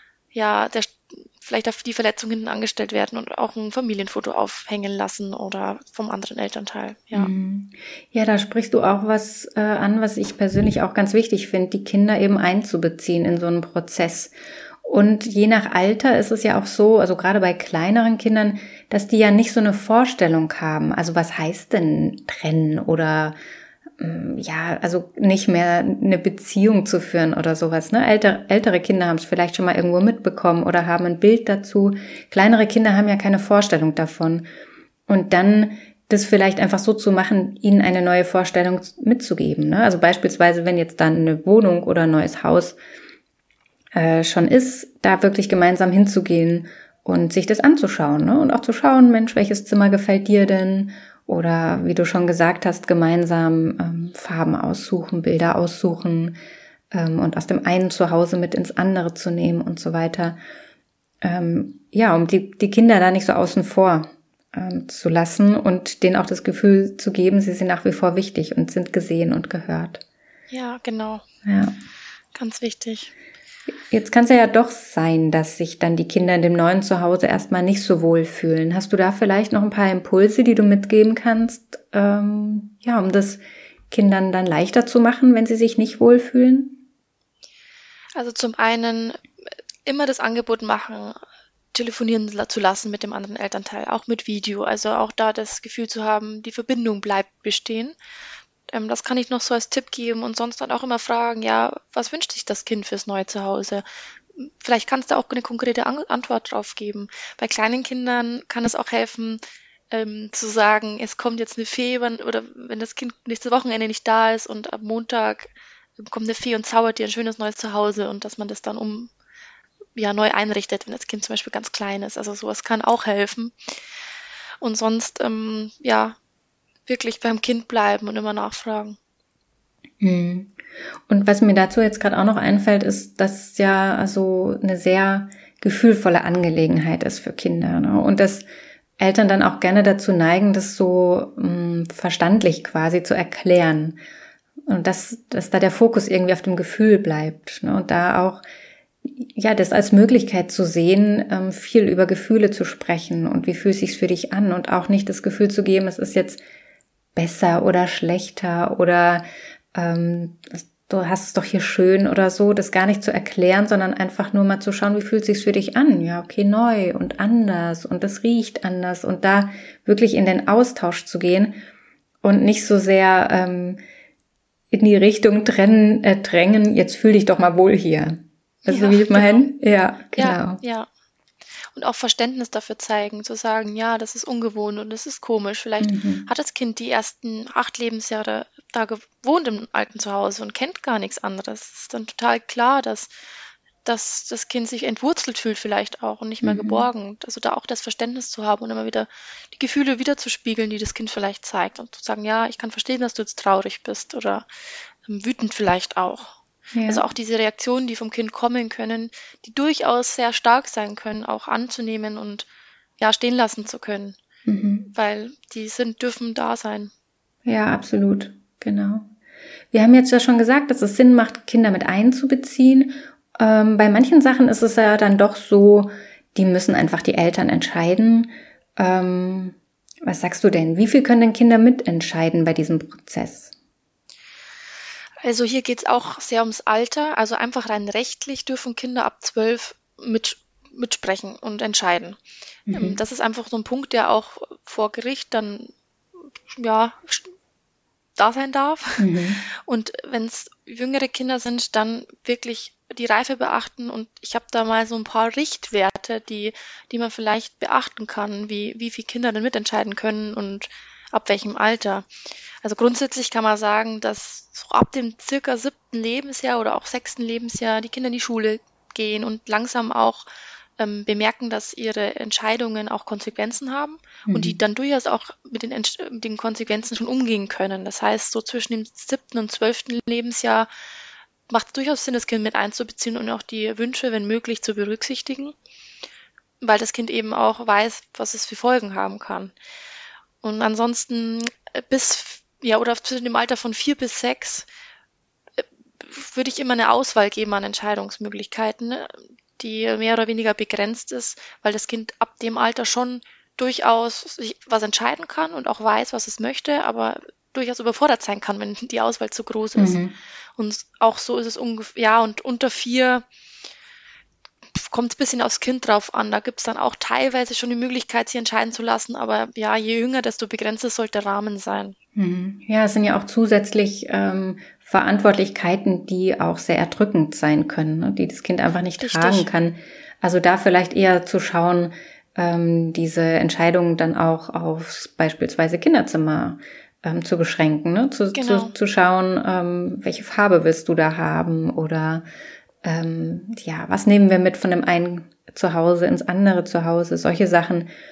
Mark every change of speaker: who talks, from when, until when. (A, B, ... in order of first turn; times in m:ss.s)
0:00.3-0:07.3 A
0:07.1-0:14.3 B
0:14.8-0:23.4 B
0:24.0-0:34.5 B
0:35.1-0:42.8 B
0:43.9-0:56.4 B
0:56.9-1:00.4 B
1:01.2-1:10.0 B
1:10.5-1:11.2 A
1:11.4-1:11.7 B
1:12.3-1:13.1 A
1:13.9-1:26.8 B
1:28.1-1:29.2 A
1:29.8-1:31.2 A
1:31.7-1:38.0 A
1:38.7-1:59.1 A
2:00.0-2:03.8 A
2:04.6-2:06.2 A
2:06.9-2:09.0 A
2:10.0-2:10.5 B
2:11.1-2:18.4 B
2:19.0-2:24.0 B
2:24.7-2:28.4 B
2:29.0-2:36.4 B
2:37.2-2:51.6 B
2:52.2-2:53.8 B
2:54.7-3:00.6 B
2:58.7-2:59.5 A
3:00.2-3:00.9 A
3:01.7-3:13.1 A
3:05.8-3:06.3 B
3:13.8-3:24.5 A
3:16.4-3:16.8 B
3:25.0-3:26.3 A
3:26.7-3:27.0 B
3:26.9-3:32.5 A
3:33.0-3:34.2 A
3:34.4-3:34.9 B
3:34.9-3:36.9 A
3:37.4-3:39.1 B
3:39.7-3:53.5 B
3:55.2-4:02.2 A
4:02.7-4:03.0 B
4:02.7-4:05.7 A
4:06.5-4:07.3 A
4:08.2-4:22.1 A
4:09.0-4:09.4 B
4:22.6-4:30.3 A
4:30.8-4:40.7 A
4:34.2-4:34.6 B
4:41.5-4:45.6 A
4:46.6-4:49.5 A
4:50.4-4:54.7 A
4:55.6-5:10.0 A
5:09.8-5:10.1 B
5:10.6-5:13.3 A
5:14.7-5:22.0 A
5:22.1-5:42.2 B
5:29.0-5:29.5 A
5:38.3-5:38.7 A
5:42.8-5:47.9 B